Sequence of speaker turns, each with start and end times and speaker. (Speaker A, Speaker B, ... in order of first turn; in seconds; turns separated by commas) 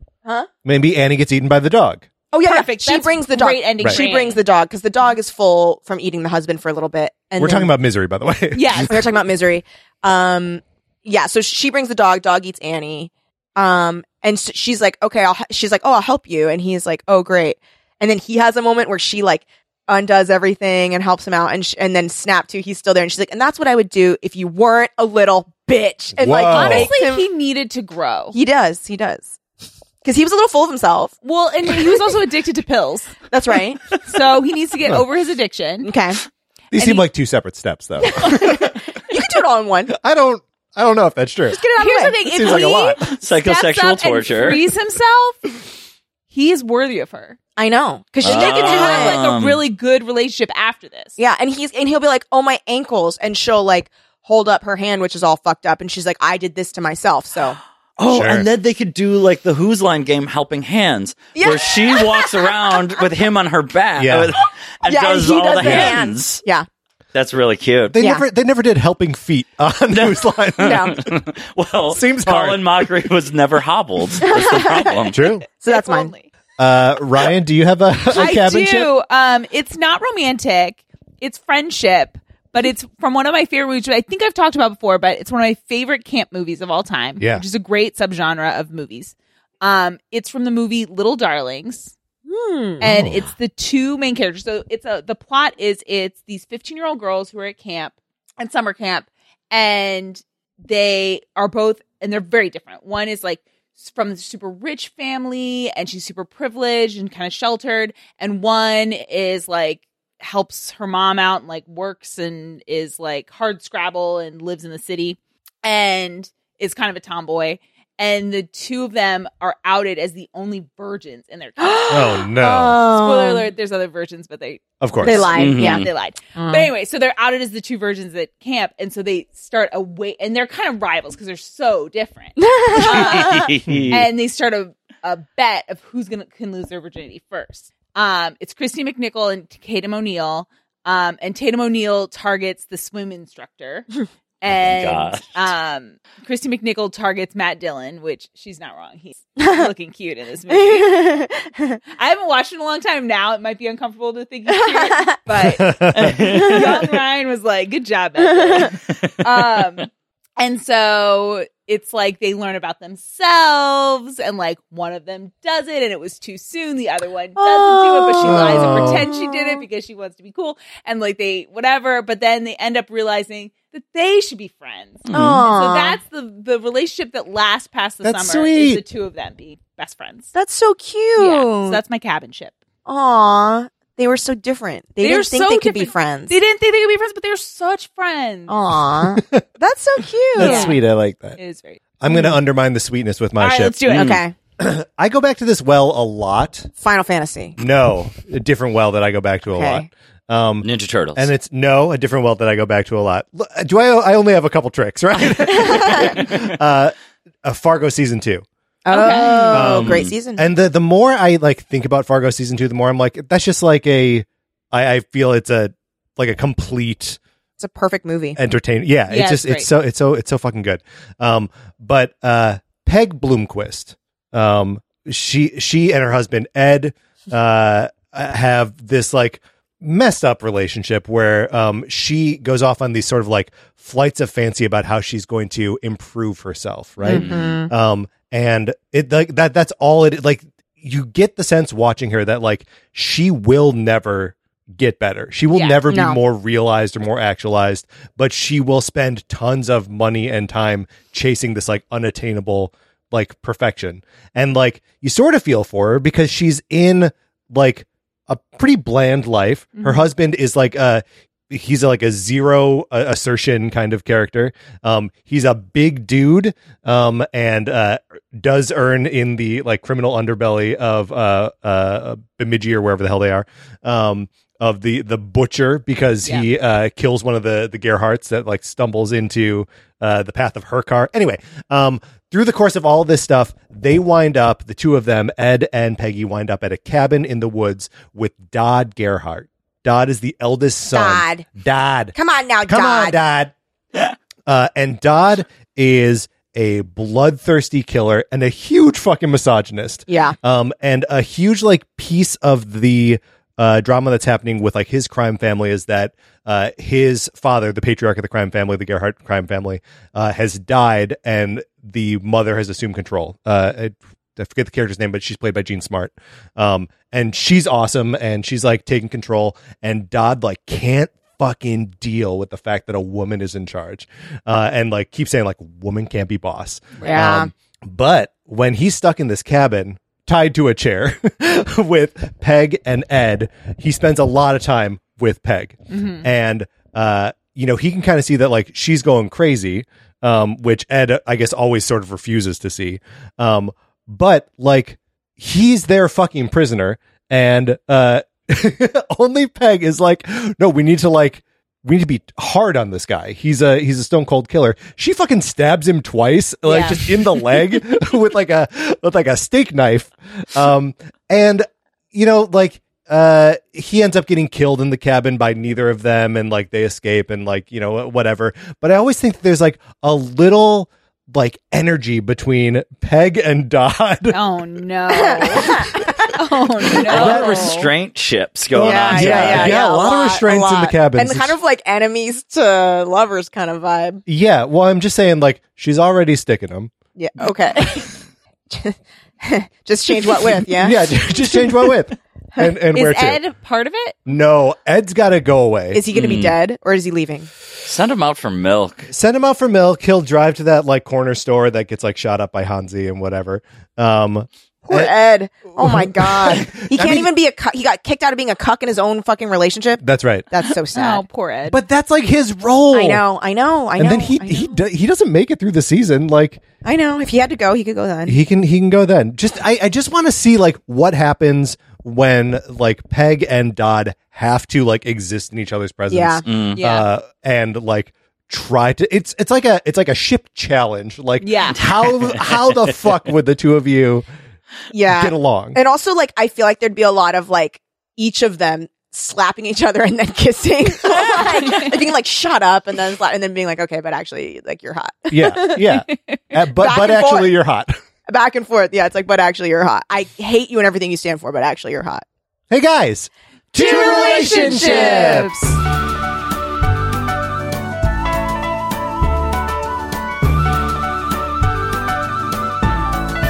Speaker A: 0.6-2.0, Speaker B: 2.3-7.7, Speaker C: 2.4-4.4, Speaker A: 7.4-8.9, Speaker C: 8.5-8.9, Speaker B: 8.9-27.2, Speaker A: 26.2-26.9, Speaker C: 26.5-28.4, Speaker B: 28.3-29.4, Speaker B: 30.0-31.1, Speaker C: 31.2-33.3, Speaker B: 33.3-34.0, Speaker C: 34.0-35.9, Speaker B: 35.8-36.2, Speaker A: 36.7-38.8, Speaker B: 38.0-39.9, Speaker A: 39.9-43.0, Speaker B: 41.5-42.7, Speaker C: 41.6-45.6, Speaker D: 43.1-44.6, Speaker C: 46.3-47.4, Speaker B: 47.6-49.2, Speaker D: 48.2-49.6, Speaker C: 48.2-51.2, Speaker B: 51.2-57.6, Speaker D: 58.0-66.4, Speaker A: 58.1-58.5, Speaker B: 61.3-62.8, Speaker A: 64.0-64.3, Speaker B: 64.8-66.7, Speaker A: 65.6-66.0, Speaker D: 67.1-67.9, Speaker A: 67.9-71.1, Speaker B: 68.0-68.2, Speaker D: 69.9-75.2, Speaker B: 70.6-71.0, Speaker A: 71.9-72.9, Speaker B: 74.2-76.1, Speaker A: 75.1-75.4, Speaker C: 75.6-76.3, Speaker A: 76.6-78.9, Speaker C: 78.1-91.9, Speaker A: 87.2-87.4, Speaker B: 92.3-92.8, Speaker A: 92.8-93.2, Speaker C: 92.8-122.3, Speaker B: 121.6-123.5, Speaker A: 121.9-122.8, Speaker C: 122.9-143.8, Speaker A: 124.8-125.3, Speaker B: 125.0-126.7, Speaker D: 125.3-125.9, Speaker B: 132.4-133.5, Speaker D: 132.8-134.1, Speaker A: 133.7-134.0, Speaker C: 144.4-151.2, Speaker D: 144.4-145.5, Speaker B: 149.4-149.7, Speaker B: 150.5-151.8, Speaker C: 152.0-180.3, Speaker B: 154.5-155.2, Speaker A: 155.4-156.4, Speaker D: 155.9-156.9, Speaker B: 156.3-156.8, Speaker B: 158.3-158.7, Speaker B: 167.4-169.6, Speaker A: 168.2-169.1, Speaker D: 175.0-175.4, Speaker B: 175.1-176.0, Speaker A: 178.0-178.8, Speaker B: 180.3-181.8, Speaker C: 181.2-182.6, Speaker B: 182.8-186.3, Speaker C: 185.0-188.5, Speaker B: 188.5-190.7, Speaker A: 188.9-189.4, Speaker A: 190.4-191.4, Speaker C: 190.4-190.8, Speaker C: 191.3-192.3, Speaker A: 192.0-194.1, Speaker C: 193.4-194.2, Speaker D: 193.9-194.2, Speaker B: 193.9-194.3, Speaker A: 194.6-196.7, Speaker B: 196.8-197.6, Speaker A: 197.6-208.4, Speaker B: 199.5-199.9, Speaker D: 200.6-201.3, Speaker B: 205.6-206.1, Speaker B: 208.8-210.5, Speaker C: 208.9-209.7, Speaker A: 209.5-217.2, Speaker D: 209.5-210.1, Speaker B: 217.6-218.4, Speaker A: 218.3-293.5, Speaker C: 219.1-219.7, Speaker B: 237.0-237.7, Speaker D: 237.1-237.5, Speaker C: 245.5-245.8, Speaker B: 245.9-246.2, Speaker C: 259.7-260.1, Speaker B: 290.9-291.4, Speaker B: 292.1-293.2, Speaker A: 294.4-374.4, Speaker B: 300.1-300.4, Speaker C: 327.0-327.3, Speaker B: 327.0-327.5, Speaker C: 335.9-336.2, Speaker C: 356.7-356.9, Speaker C: 374.3-377.9, Speaker B: 375.1-376.3, Speaker A: 377.0-377.7, Speaker D: 377.0-379.8, Speaker B: 377.1-377.6, Speaker B: 378.7-384.2, Speaker A: 378.8-381.6, Speaker A: 384.2-386.9, Speaker B: 387.2-388.1, Speaker B: 388.7-391.9, Speaker A: 390.7-393.4, Speaker C: 392.9-394.1, Speaker A: 394.2-396.0, Speaker B: 395.9-397.5, Speaker D: 396.1-396.6, Speaker D: 397.8-399.1, Speaker A: 399.1-405.1, Speaker B: 404.9-411.2, Speaker A: 405.8-407.3, Speaker A: 410.0-410.5, Speaker C: 410.9-411.8, Speaker A: 411.7-413.2, Speaker B: 412.9-414.8, Speaker A: 414.0-416.6, Speaker B: 416.8-418.4, Speaker A: 418.3-434.2, Speaker B: 426.1-426.4, Speaker D: 426.4-426.8, Speaker C: 426.7-427.1, Speaker C: 431.4-431.8, Speaker B: 434.9-445.8, Speaker A: 435.1-435.8, Speaker C: 441.1-442.0, Speaker A: 445.3-447.9, Speaker C: 446.1-446.4, Speaker B: 446.8-447.5, Speaker B: 448.3-452.2, Speaker A: 452.7-455.5, Speaker C: 453.7-455.8, Speaker B: 453.8-455.4